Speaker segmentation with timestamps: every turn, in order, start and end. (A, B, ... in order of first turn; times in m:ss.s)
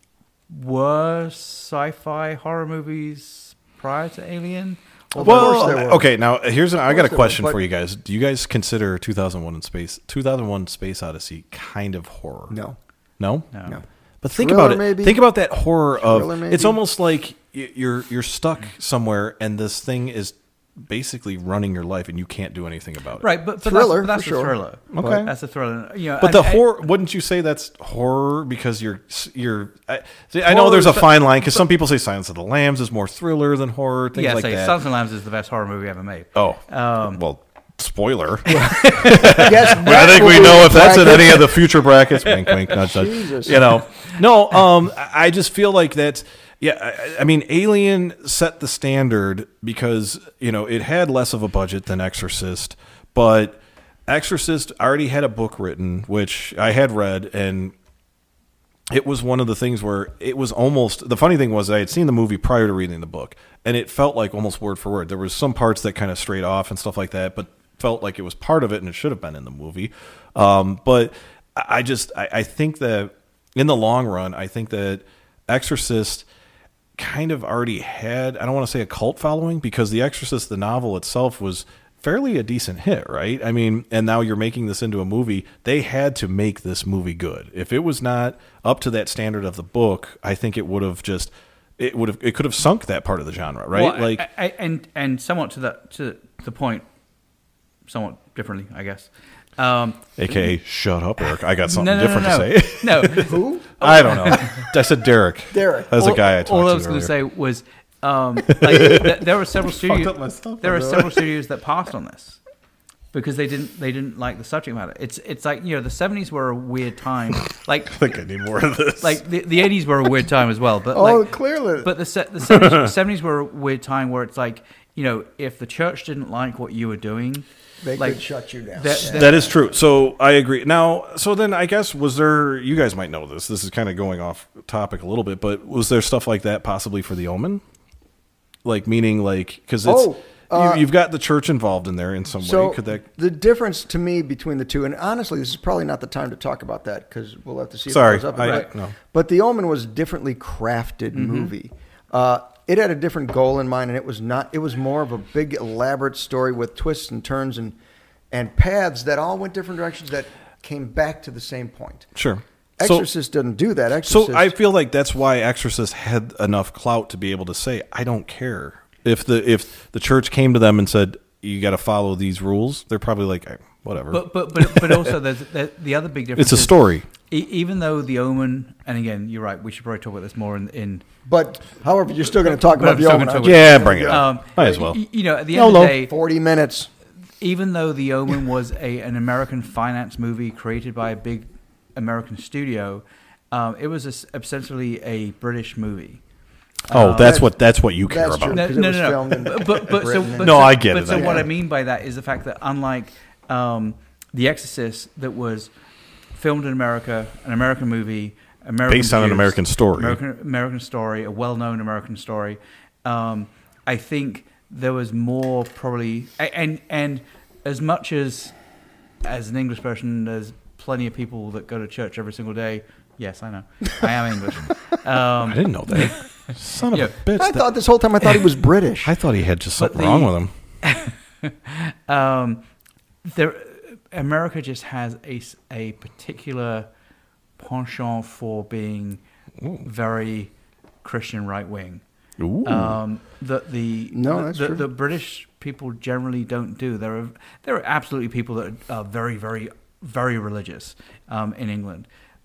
0:00.5-0:05.6 A
0:05.1-0:06.1 B
0:05.2-0:12.5 C
0:06.9-0:07.6 B
0:12.5-0:12.8 B
0:13.2-0:13.5 C
0:13.5-0:13.8 A
0:14.2-0:23.3 C
0:14.4-0:15.2 B
0:16.0-0:16.8 B
0:23.2-0:26.7 A
0:23.6-0:25.3 B
0:24.9-0:25.3 C
0:26.2-0:34.8 C
0:30.5-0:31.6 A
0:34.1-0:37.2 A
0:36.4-0:57.7 C
0:38.5-0:40.8 A
0:38.5-0:41.7 B
0:42.3-0:42.6 A
0:42.7-0:43.7 B
0:58.9-1:16.2 C
1:17.0-1:34.2 C
1:33.7-1:36.9 A
1:37.9-1:40.1 A
1:40.2-1:47.1 C
1:41.6-1:44.7 A
1:43.2-1:43.7 B
1:45.5-1:46.0 B
1:45.9-1:52.4 A
1:48.6-1:51.3 C
1:53.1-1:58.0 A
1:57.4-1:59.2 C
1:59.0-2:07.4 A
2:00.9-2:01.9 B
2:02.4-2:02.9 C
2:07.8-2:09.6 B
2:08.8-2:09.6 A
2:09.0-2:17.6 C
2:18.6-2:23.0 C
2:19.8-2:20.8 B
2:22.4-2:37.8 B
2:27.9-2:28.9 C
2:28.4-2:28.7 A
2:31.1-2:31.5 A
2:38.3-2:42.1 B
2:42.2-2:43.1 C
2:42.8-2:44.5 B
2:44.1-2:55.2 C
2:54.1-3:01.0 A
2:56.4-2:57.0 C
3:01.2-3:04.3 B
3:02.5-3:06.1 A
3:03.4-3:05.0 C
3:05.5-3:06.0 C
3:06.0-3:06.9 B
3:07.4-3:16.2 A
3:16.9-3:17.4 A
3:16.9-3:18.7 C
3:17.2-3:17.5 B
3:18.1-3:21.4 B
3:18.5-3:25.7 A
3:20.4-3:21.5 C
3:26.3-3:38.6 A
3:28.9-3:30.2 C
3:39.2-3:46.2 A
3:45.4-3:47.6 C
3:46.9-3:47.2 A
3:47.4-3:49.1 B
3:49.0-3:50.5 C
3:49.8-3:52.7 A
3:53.2-3:56.9 A
3:57.6-3:59.2 A
3:59.8-4:00.5 A
4:01.0-4:02.0 A
4:02.4-4:03.0 C
4:02.6-4:12.1 A
4:04.1-4:04.8 B